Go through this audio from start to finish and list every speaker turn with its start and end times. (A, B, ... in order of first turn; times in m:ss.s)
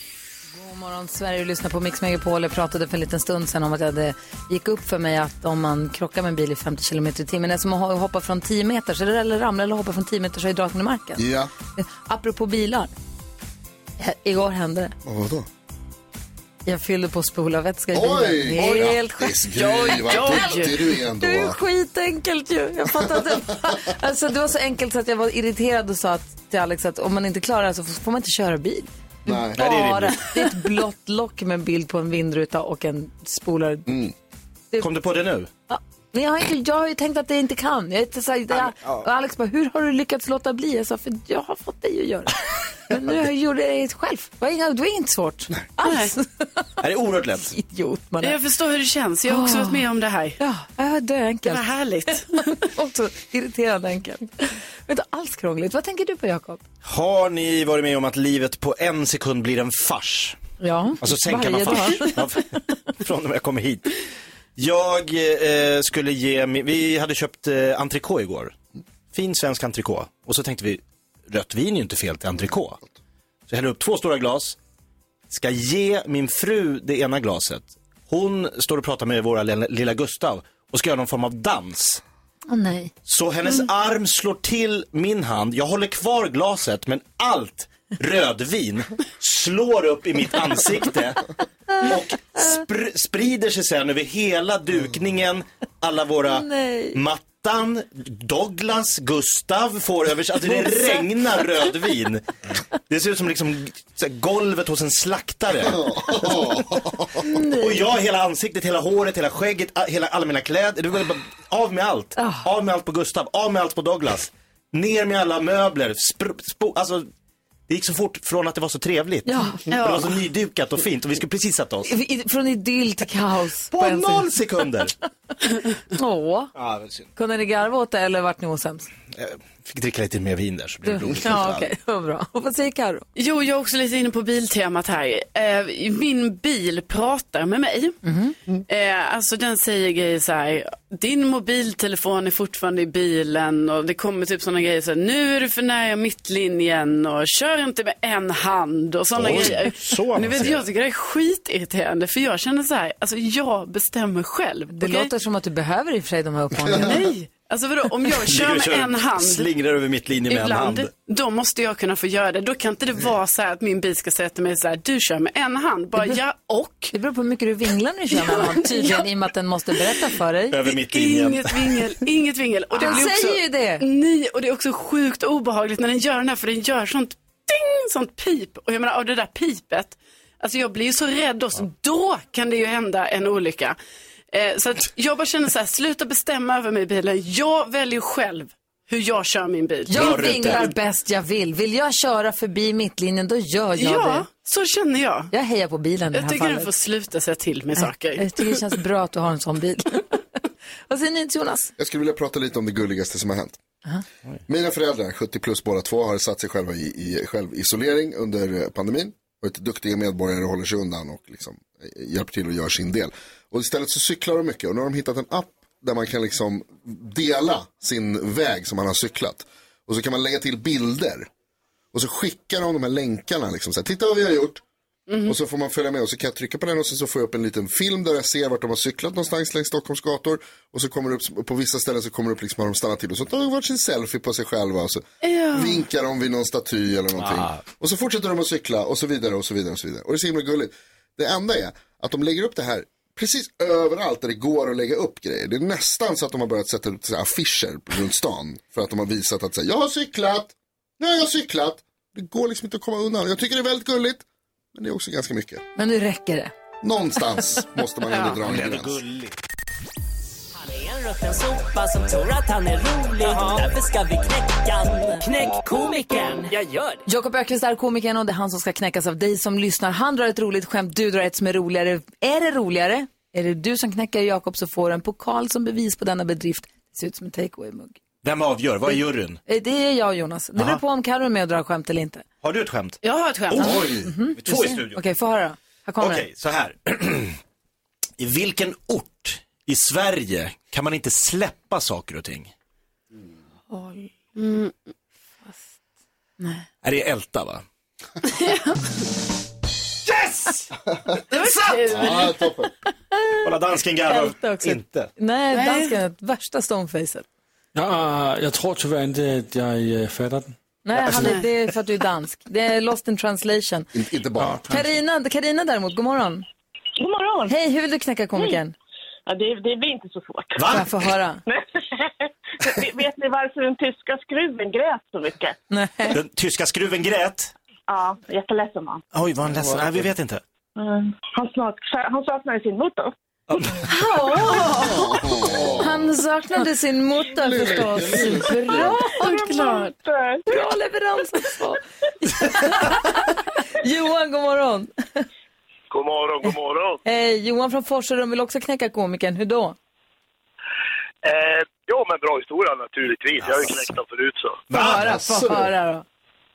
0:00.5-0:11.2 A
0:11.2-0:11.5 B
0:11.8-0:12.9 A
0:14.0-0:15.0 A
0:15.0-0:15.5 B
0:16.7-0:33.9 A
0:17.9-0:21.6 B
0:19.6-0:20.8 C
0:29.3-0:29.6 B
0:29.6-0:30.3 D
0:33.9-0:34.1 B
0:34.8-0:35.5 D
0:35.7-0:46.7 A
0:45.8-0:46.1 C
0:46.8-0:47.5 D
0:47.5-0:48.4 A
0:48.2-0:50.4 C
0:49.3-0:49.9 A
0:50.4-0:56.6 A
0:51.5-0:52.5 C
0:56.8-1:00.4 D
1:00.6-1:02.3 A
1:01.0-1:03.9 D
1:04.6-1:08.6 D
1:09.1-1:12.8 D
1:13.5-1:14.6 D
1:15.3-1:22.0 D
1:22.5-1:22.9 A
1:23.1-1:31.2 D
1:31.8-1:32.6 A
1:31.8-1:42.2 D
1:36.3-1:37.0 A
1:40.5-1:41.0 A
1:42.9-1:47.0 D
1:45.8-1:47.1 B
1:47.2-1:47.9 A
1:47.6-1:57.1 D
1:52.2-1:52.5 A
1:57.7-2:01.9 D
1:59.3-1:59.6 A
1:59.7-2:00.1 C
2:01.9-2:04.3 A
2:03.7-2:04.9 D
2:06.0-2:06.5 A
2:06.6-2:07.1 D
2:07.2-2:08.9 A
2:09.1-2:11.7 D
2:10.9-2:13.1 A
2:13.2-2:18.0 C
2:18.0-2:18.4 A
2:18.7-2:35.1 C
2:29.2-2:30.7 D
2:34.7-2:37.0 A
2:36.7-2:39.5 C
2:38.2-2:40.9 D
2:40.3-2:46.9 C
2:46.9-2:50.6 A
2:48.2-2:49.0 C
2:50.5-2:51.8 D
2:50.8-3:03.8 C
2:52.8-2:53.8 A
3:04.3-3:10.6 C
3:09.9-3:10.7 D
3:09.9-3:14.2 A
3:13.8-3:15.3 C
3:15.3-3:16.7 A
3:16.1-3:18.6 C
3:17.8-3:20.2 A
3:20.9-3:21.7 A
3:21.8-3:23.6 B
3:24.5-3:41.3 B
3:41.9-3:44.6 B
3:45.1-3:45.3 C
3:45.3-4:15.6 B
3:55.2-3:55.8 C
3:57.2-3:57.6 D
4:15.8-4:16.5 A
4:16.8-4:19.0 B
4:18.4-4:19.3 D
4:20.6-4:27.0 E
4:27.1-4:38.0 A
4:38.2-4:39.4 D
4:38.9-4:42.3 A
4:42.4-4:43.0 D
4:43.0-4:43.8 C
4:43.5-4:43.8 D
4:43.6-4:44.1 B
4:43.6-4:46.2 A
4:44.4-4:45.0 D
4:46.0-4:47.4 D
4:48.2-4:52.5 D
4:53.7-4:54.1 A
4:54.4-4:54.7 C
4:55.4-4:55.7 A
4:56.4-4:56.7 A
4:56.8-4:57.6 D
4:58.4-4:58.7 C
5:00.1-5:00.7 D
5:01.3-5:02.3 C
5:01.4-5:01.9 D
5:01.9-5:02.7 B
5:03.4-5:05.1 D
5:04.1-5:07.2 A
5:05.5-5:05.9 C
5:07.7-5:10.6 F
5:10.8-5:13.9 A
5:13.9-5:14.6 B
5:14.4-5:14.8 F
5:14.7-5:16.4 A
5:17.0-5:17.5 G
5:17.5-5:18.7 A
5:19.3-5:20.7 G
5:20.6-5:20.9 D
5:20.7-5:21.4 A
5:21.5-5:25.6 G
5:25.7-5:26.2 A
5:26.1-5:27.5 D
5:27.9-5:29.0 G
5:29.1-5:30.4 D
5:29.5-5:29.9 B
5:30.8-5:33.1 G
5:33.5-5:33.8 D
5:33.9-5:39.9 A
5:34.8-5:36.1 B
5:37.3-5:39.0 B
5:39.0-5:40.4 G
5:40.5-5:45.2 A
5:45.9-5:47.0 H
5:47.0-5:49.8 A
5:51.2-5:54.6 H
5:53.4-5:53.8 D
5:54.7-5:56.0 A
5:54.7-5:55.6 D